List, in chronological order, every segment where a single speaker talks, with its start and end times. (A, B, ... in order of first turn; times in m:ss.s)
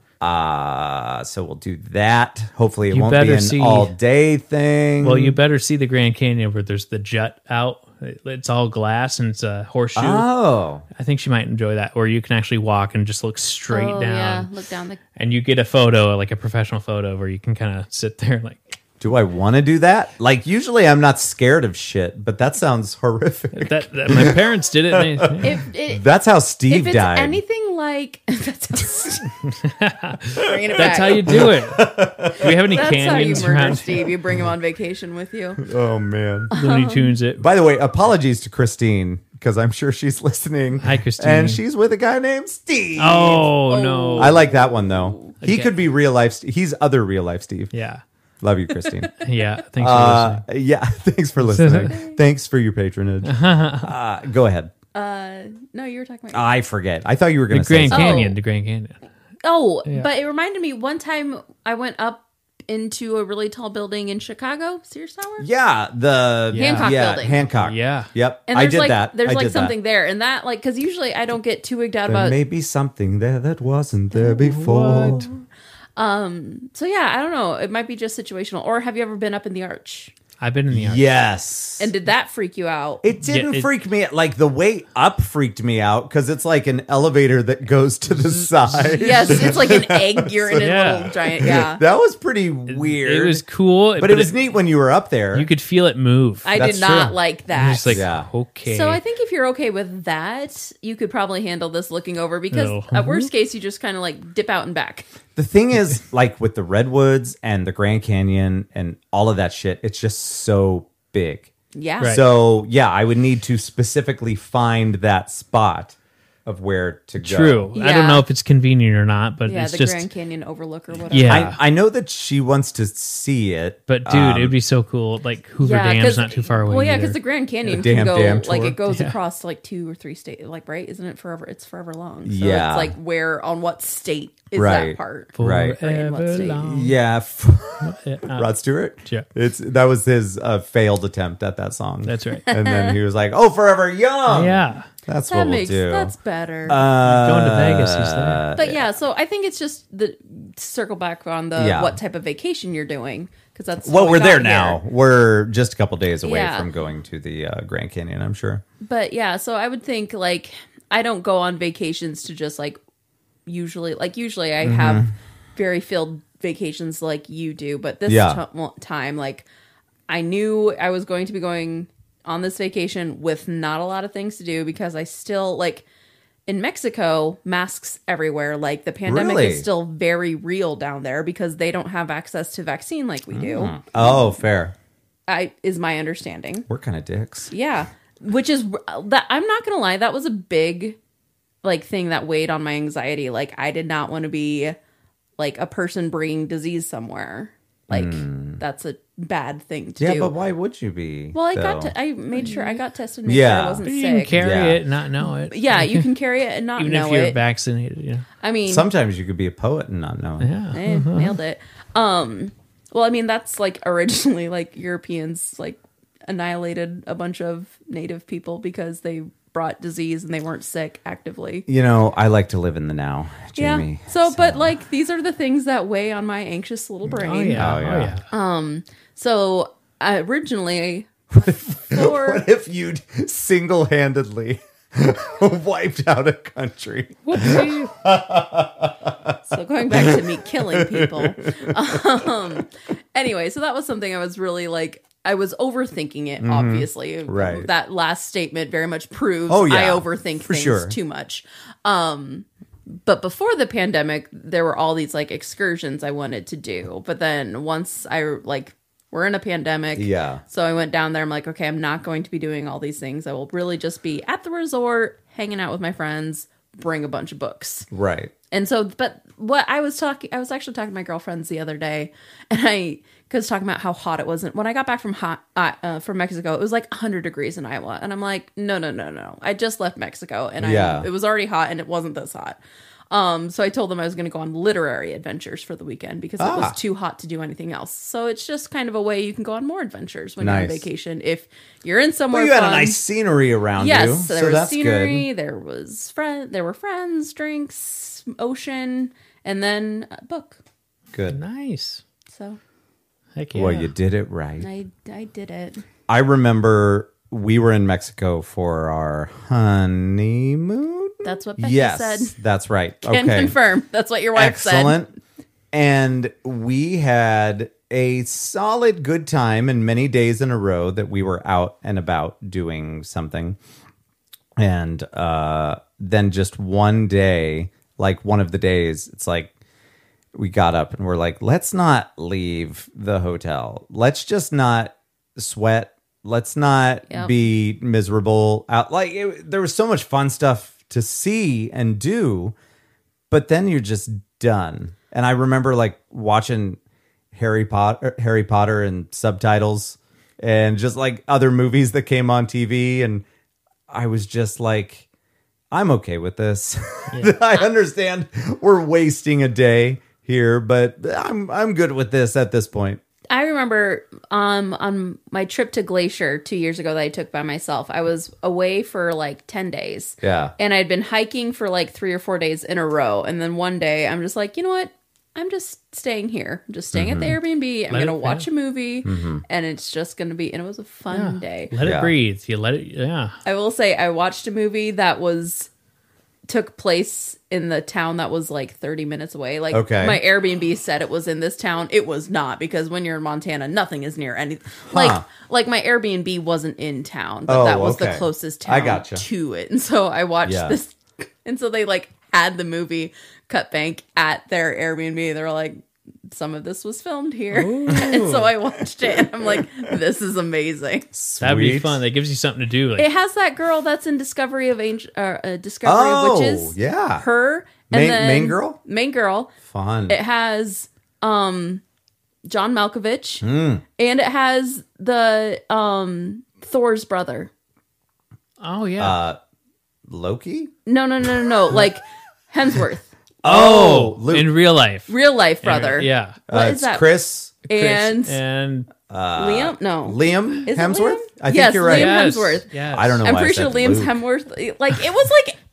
0:00.2-0:05.4 A
0:02.9-0:03.9 B
0:05.0-0:10.3 B
0:10.0-0:10.8 A
0:11.0-0:14.5 B
0:13.7-0:15.0 C
0:15.2-0:18.8 B
0:19.0-0:27.4 A
0:23.5-0:25.6 B
0:25.4-0:26.0 C
0:26.7-0:29.4 C
0:29.6-0:34.2 B
0:30.4-0:31.4 C
0:30.8-0:33.4 A
0:32.4-0:35.6 C
0:35.6-0:36.5 A
0:36.5-0:37.1 C
0:36.5-0:37.4 B
0:37.4-0:43.5 A
0:40.8-0:41.6 B
0:43.0-0:44.4 B
0:43.7-0:45.4 C
0:44.2-0:47.7 A
0:45.4-0:45.7 B
0:47.7-0:48.0 B
0:48.4-0:49.2 A
0:49.2-0:50.4 B
0:49.8-0:54.7 A
0:51.4-0:52.0 B
0:51.9-0:52.2 C
0:53.2-0:53.9 B
0:54.9-0:56.5 C
0:56.3-0:58.2 A
0:57.5-0:59.0 B
0:57.9-0:58.4 C
0:59.4-1:05.5 C
1:05.4-1:09.7 A
1:06.5-1:06.9 B
1:06.6-1:07.4 C
1:07.6-1:08.1 B
1:08.5-1:12.4 C
1:12.1-1:15.3 A
1:14.3-1:15.3 B
1:15.1-1:15.3 C
1:16.0-1:20.1 C
1:20.4-1:21.1 B
1:20.7-1:21.9 A
1:21.8-1:23.0 C
1:23.0-1:33.4 A
1:23.2-1:23.7 B
1:28.2-1:28.5 B
1:28.9-1:31.8 C
1:30.6-1:31.1 B
1:32.7-1:34.4 B
1:34.0-1:35.5 A
1:35.3-1:39.0 B
1:36.4-1:38.0 C
1:36.6-1:37.1 A
1:37.9-1:38.3 A
1:38.6-1:45.1 C
1:42.5-1:43.3 B
1:45.4-1:51.5 A
1:51.7-1:52.2 C
1:52.0-1:57.7 A
1:57.2-2:00.1 B
1:57.7-1:58.2 C
1:59.4-2:01.5 C
2:01.1-2:01.6 B
2:01.3-2:04.6 A
2:03.9-2:07.2 B
2:05.6-2:16.6 C
2:07.7-2:08.8 A
2:07.8-2:09.2 B
2:12.2-2:12.9 A
2:14.6-2:15.8 A
2:15.4-2:16.9 B
2:16.6-2:26.1 A
2:17.8-2:18.5 B
2:22.0-2:22.4 B
2:22.4-2:23.0 C
2:24.3-2:24.9 B
2:25.3-2:26.8 C
2:26.7-2:28.8 A
2:27.0-2:28.5 B
2:28.6-2:34.8 C
2:31.6-2:32.0 A
2:33.8-2:38.6 A
2:36.2-2:36.7 C
2:38.8-2:42.8 C
2:43.4-2:49.4 C
2:44.6-2:45.1 A
2:48.1-2:48.4 A
2:50.1-2:55.8 C
2:56.5-3:04.3 C
2:59.0-2:59.7 A
3:03.3-3:04.7 A
3:05.3-3:06.7 C
3:06.7-3:07.5 A
3:07.5-3:11.0 C
3:11.6-3:14.8 C
3:15.4-3:20.3 C
3:17.9-3:18.6 A
3:20.0-3:21.9 A
3:21.3-3:24.4 C
3:22.4-3:22.8 B
3:23.3-3:23.8 A
3:23.8-3:26.1 B
3:24.4-3:24.8 A
3:25.5-3:27.4 C
3:26.8-3:28.3 B
3:28.4-3:28.9 C
3:28.7-3:30.5 A
3:30.4-3:31.4 B
3:30.7-3:41.7 C
3:41.7-3:44.7 A
3:43.6-3:47.8 C
3:47.2-3:48.2 B
3:47.6-3:48.2 A
3:48.3-3:52.4 C
3:51.3-3:59.4 A
3:57.3-3:57.9 B
3:59.5-4:27.9 C
3:59.9-4:02.3 A
4:06.4-4:07.7 A
4:09.5-4:11.0 A
4:20.0-4:20.4 A
4:27.9-4:28.3 A
4:28.5-4:42.6 C
4:40.6-4:41.1 A
4:43.1-4:53.0 C
4:46.4-4:46.8 A
4:50.4-4:50.9 A
4:52.3-4:55.3 A
4:53.8-5:00.6 C
5:01.1-5:01.4 A
5:01.3-5:02.0 B
5:02.3-5:02.6 C
5:03.4-5:03.9 B
5:03.5-5:04.7 A
5:04.6-5:05.8 C
5:06.1-5:13.6 A
5:11.2-5:12.3 C
5:13.0-5:15.0 C
5:14.3-5:15.1 A
5:15.7-5:23.6 A
5:24.6-5:29.5 A
5:30.3-5:42.6 A
5:43.3-5:46.8 A
5:47.3-5:53.2 A
5:53.9-5:55.0 A
5:55.7-6:03.0 A
6:03.3-6:21.7 C
6:10.2-6:10.5 A
6:16.9-6:17.4 A
6:17.9-6:18.5 B
6:19.0-6:19.4 A
6:21.1-6:23.4 B
6:21.8-6:22.1 A
6:23.4-6:25.7 C
6:26.5-6:51.1 C
6:29.7-6:30.2 A
6:34.9-6:35.2 A
6:37.5-6:39.2 A
6:40.4-6:40.8 A
6:47.5-6:48.5 B
6:51.1-6:52.0 A
6:51.4-6:53.1 B
6:53.0-6:59.5 C
6:55.8-6:57.3 A
6:57.9-6:58.8 A
6:59.6-7:00.2 A
7:00.1-7:01.8 C
7:02.4-7:03.4 C
7:03.4-7:03.8 A
7:04.0-7:07.5 C
7:08.6-7:09.2 B
7:09.0-7:09.4 A
7:10.1-7:10.7 A
7:10.9-7:13.1 C
7:13.4-7:14.5 A
7:13.4-7:16.4 B
7:15.1-7:17.1 C
7:16.5-7:17.5 A
7:17.7-7:18.4 C
7:17.7-7:18.9 B
7:19.1-7:24.2 A
7:19.3-7:22.7 C
7:21.9-7:23.2 B
7:23.2-7:25.6 C